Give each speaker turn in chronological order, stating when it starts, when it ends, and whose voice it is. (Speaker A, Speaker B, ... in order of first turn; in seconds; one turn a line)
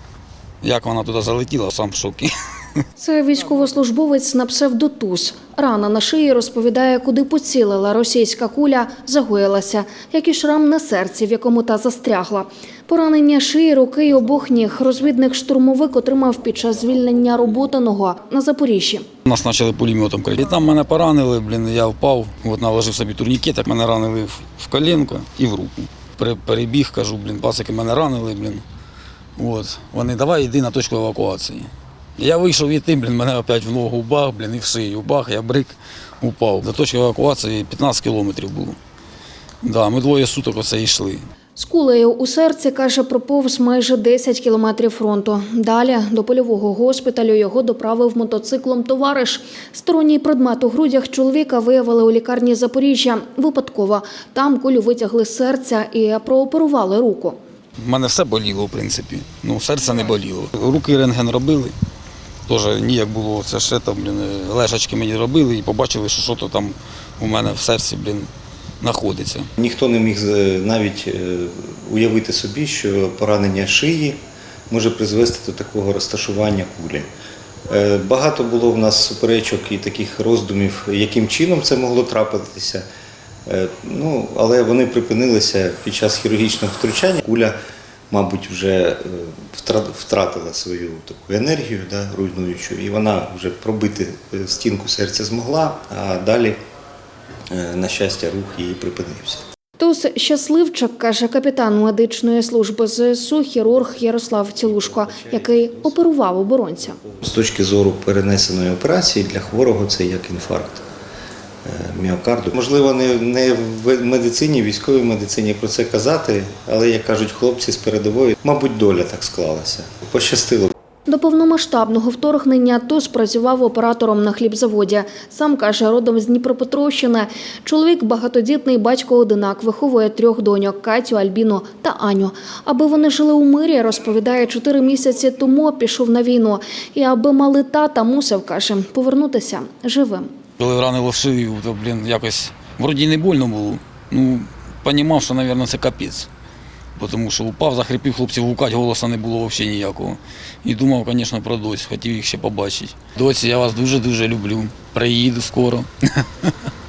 Speaker A: 0.6-2.3
Speaker B: 3.0-19.0
Speaker A: 19.2-28.6
Speaker A: 29.4-38.8
Speaker A: 39.6-41.2
Speaker B: 41.5-57.4
Speaker A: 57.8-61.7
Speaker A: 62.5-68.3
Speaker A: 68.8-69.5
Speaker C: 69.6-74.2
Speaker C: 74.7-77.1
Speaker C: 77.7-82.8
Speaker C: 83.5-87.6
Speaker C: 88.1-96.6
Speaker C: 97.5-99.4
Speaker B: 99.8-107.0
Speaker C: 107.2-110.8
Speaker C: 111.6-120.7
Speaker B: 121.1-140.3
Speaker A: 140.6-146.3
Speaker A: 146.9-156.5